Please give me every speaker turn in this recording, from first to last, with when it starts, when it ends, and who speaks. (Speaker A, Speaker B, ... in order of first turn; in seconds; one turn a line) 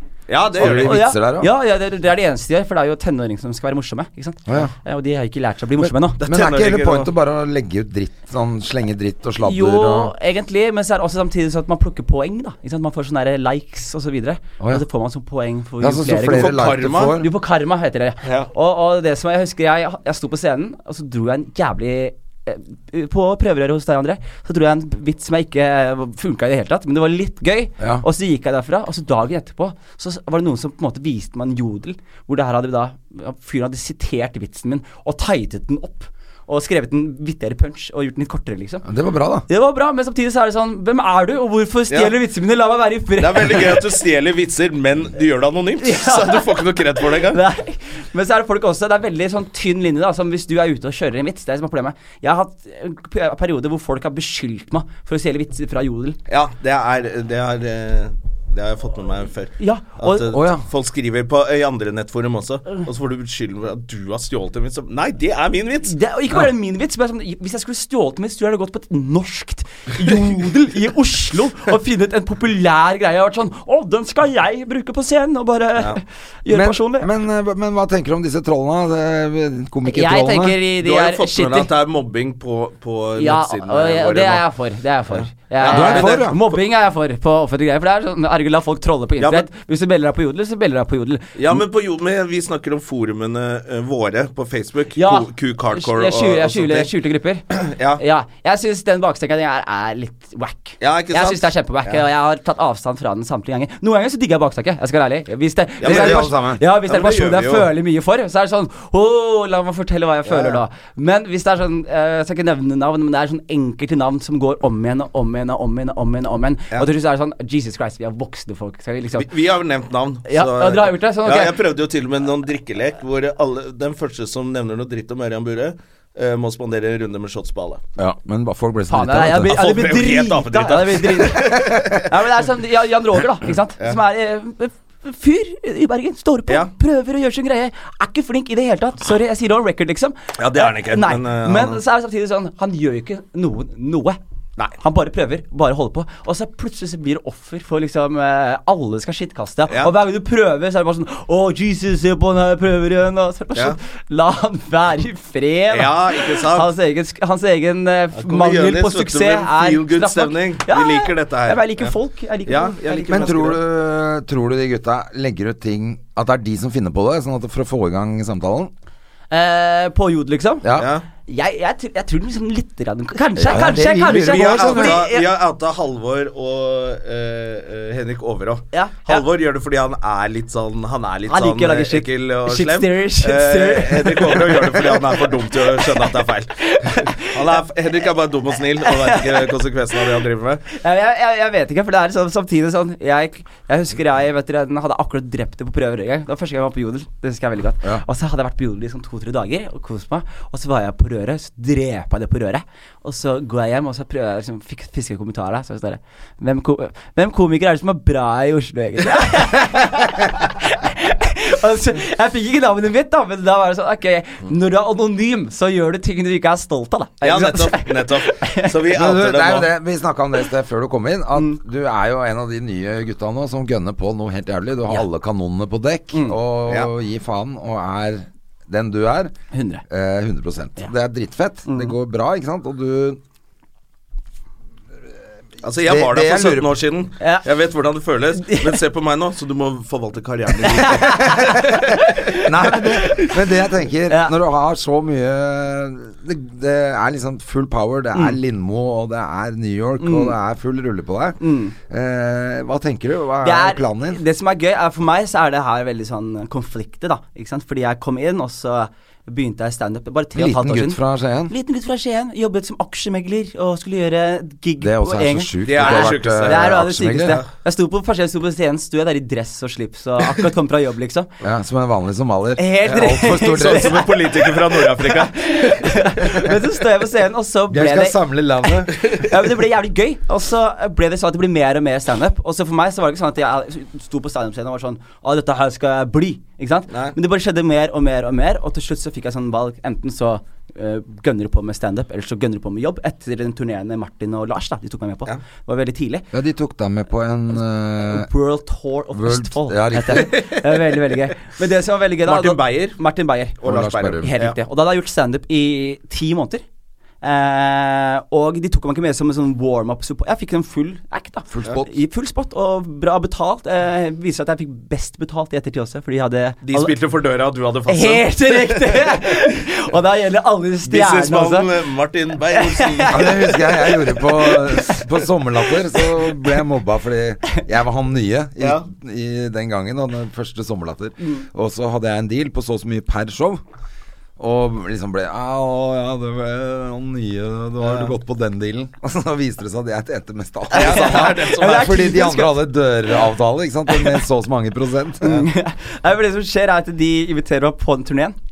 Speaker A: 0.3-1.1
Speaker B: 0.6-1.5
Speaker C: 0.6-6.2
Speaker B: 4.5-4.7
Speaker B: 5.8-10.1
Speaker A: 6.2-7.1
Speaker C: 9.4-38.8
Speaker B: 15.8-17.3
Speaker A: 16.2-17.1
Speaker A: 18.2-18.5
Speaker B: 27.8-28.0
Speaker B: 38.8-39.5
Speaker C: 39.5-43.9
Speaker A: 41.9-42.1
Speaker A: 43.2-47.4
Speaker C: 45.8-56.2
Speaker A: 56.3-65.9
Speaker C: 59.6-60.3
Speaker B: 60.3-60.6
Speaker C: 65.8-77.1
Speaker B: 76.5-80.6
Speaker C: 79.8-81.7
Speaker A: 80.8-84.4
Speaker C: 83.2-91.6
Speaker A: 85.1-86.4
Speaker B: 85.7-86.4
Speaker A: 89.2-89.5
Speaker A: 91.3-96.9
Speaker C: 95.0-97.4
Speaker A: 97.5-98.0
Speaker C: 98.0-119.3
Speaker A: 100.8-102.0
Speaker A: 105.8-106.3
Speaker B: 105.8-106.6
Speaker A: 106.8-107.7
Speaker A: 110.2-110.6
Speaker A: 119.2-127.8
Speaker C: 120.3-121.6
Speaker B: 128.0-129.6
Speaker C: 128.9-144.2
Speaker A: 129.4-132.1
Speaker A: 140.4-141.8
Speaker C: 144.8-163.4
Speaker A: 155.7-156.7
Speaker A: 158.2-161.9
Speaker A: 162.5-163.6
Speaker B: 163.1-168.7
Speaker C: 169.3-170.7
Speaker B: 170.6-170.9
Speaker A: 170.7-171.1
Speaker C: 171.2-175.3
Speaker B: 173.4-175.0
Speaker A: 174.1-190.7
Speaker C: 178.7-179.2
Speaker C: 181.3-186.1
Speaker C: 186.6-187.4
Speaker C: 188.8-189.5
Speaker C: 190.7-218.7
Speaker A: 217.2-219.7
Speaker B: 218.9-229.3
Speaker C: 229.5-229.8
Speaker B: 229.9-233.2
Speaker C: 231.7-231.9
Speaker A: 235.6-241.9
Speaker B: 235.8-236.7
Speaker C: 237.2-237.4
Speaker C: 238.4-238.8
Speaker C: 240.6-243.5
Speaker B: 241.3-241.6
Speaker B: 242.3-254.2
Speaker C: 244.1-244.3
Speaker C: 250.0-250.3
Speaker C: 251.4-251.7
Speaker C: 253.4-271.3
Speaker B: 260.4-261.5
Speaker B: 264.8-267.4
Speaker A: 265.6-266.7
Speaker B: 271.4-274.1
Speaker C: 272.6-296.3
Speaker A: 273.4-276.1
Speaker B: 277.7-279.0
Speaker A: 286.9-287.1
Speaker B: 296.3-298.3
Speaker C: 298.0-306.6
Speaker B: 299.1-300.4
Speaker A: 302.2-303.0
Speaker A: 303.6-304.6
Speaker B: 303.6-304.3
Speaker C: 307.2-316.9
Speaker B: 311.5-311.9
Speaker A: 316.6-319.1
Speaker C: 317.9-321.7
Speaker A: 320.9-323.3
Speaker C: 322.5-325.1
Speaker B: 323.1-333.6
Speaker A: 328.6-328.8
Speaker B: 334.4-345.4
Speaker A: 337.8-338.1
Speaker A: 340.7-342.1
Speaker C: 340.7-342.6
Speaker C: 343.9-344.2
Speaker C: 345.2-348.4